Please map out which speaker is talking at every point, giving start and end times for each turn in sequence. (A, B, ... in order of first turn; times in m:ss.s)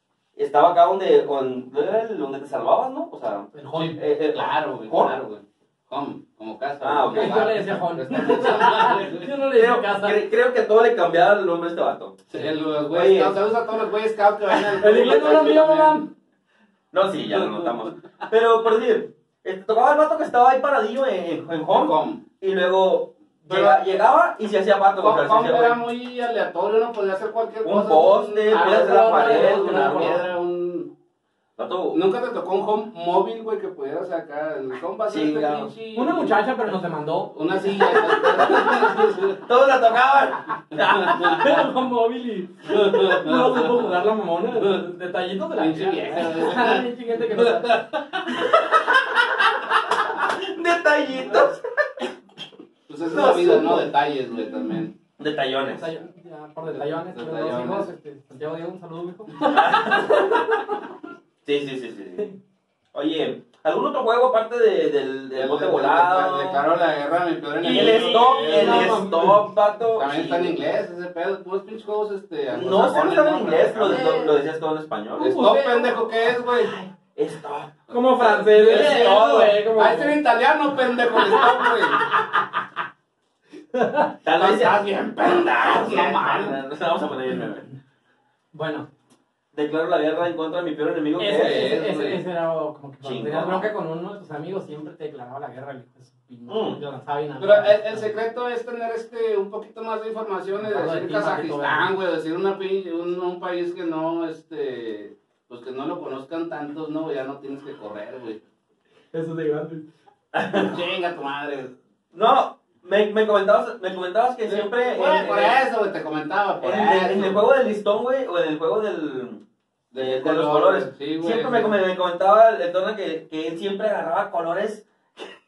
0:00.4-0:05.1 A
0:03.5-0:04.0 B
0:04.3-0:09.3 C
0:06.8-0:07.5 A
0:07.1-0:10.2 B
0:09.5-0:12.2 A
0:12.3-0:16.0 C
0:12.9-0:13.4 A
0:14.8-0:16.1 B
0:16.9-0:25.8 A
0:17.4-0:17.7 C
0:21.7-0:22.2 C
0:23.5-0:23.8 C
0:25.0-0:30.9 C
0:27.6-0:30.2 A
0:28.5-0:30.2 B
0:31.6-0:32.0 A
0:31.9-0:36.4 C
0:35.1-0:35.7 A
0:35.9-0:37.3 B
0:37.3-0:39.4 C
0:39.4-0:41.6 A
0:40.8-0:41.4 C
0:41.2-0:48.0 B
0:42.7-0:43.9 C
0:45.6-0:48.0 C
0:48.4-0:49.4 A
0:50.0-0:52.1 A
0:52.9-0:55.0 C
0:53.1-0:53.9 A
0:55.2-0:55.9 A
0:55.7-1:00.7 B
0:56.7-0:57.9 C
0:59.4-1:00.4 A
1:01.4-1:02.3 A
1:02.9-1:06.6 A
1:05.3-1:09.3 C
1:07.6-1:09.4 B
1:07.7-1:10.6 A
1:09.9-1:14.3 C
1:12.5-1:15.3 A
1:13.9-1:14.2 B
1:15.2-1:16.0 B
1:15.2-1:16.7 C
1:16.5-1:19.1 A
1:17.9-1:20.2 B
1:18.2-1:22.1 C
1:21.1-1:22.5 B
1:23.7-1:24.1 B
1:24.2-1:27.6 A
1:24.4-1:26.6 C
1:28.5-1:28.9 B
1:29.5-1:31.8 A
1:31.2-1:38.1 B
1:31.3-1:32.2 C
1:33.0-1:33.7 A
1:36.5-1:36.8 A
1:37.4-1:48.4 C
1:40.6-1:41.9 B
1:49.1-1:49.9 B
1:50.3-1:50.8 A
1:50.5-1:51.7 C
1:52.1-1:55.6 A
1:54.5-1:57.4 C
1:56.6-1:59.4 A
1:59.9-2:01.8 C
2:00.0-2:05.3 A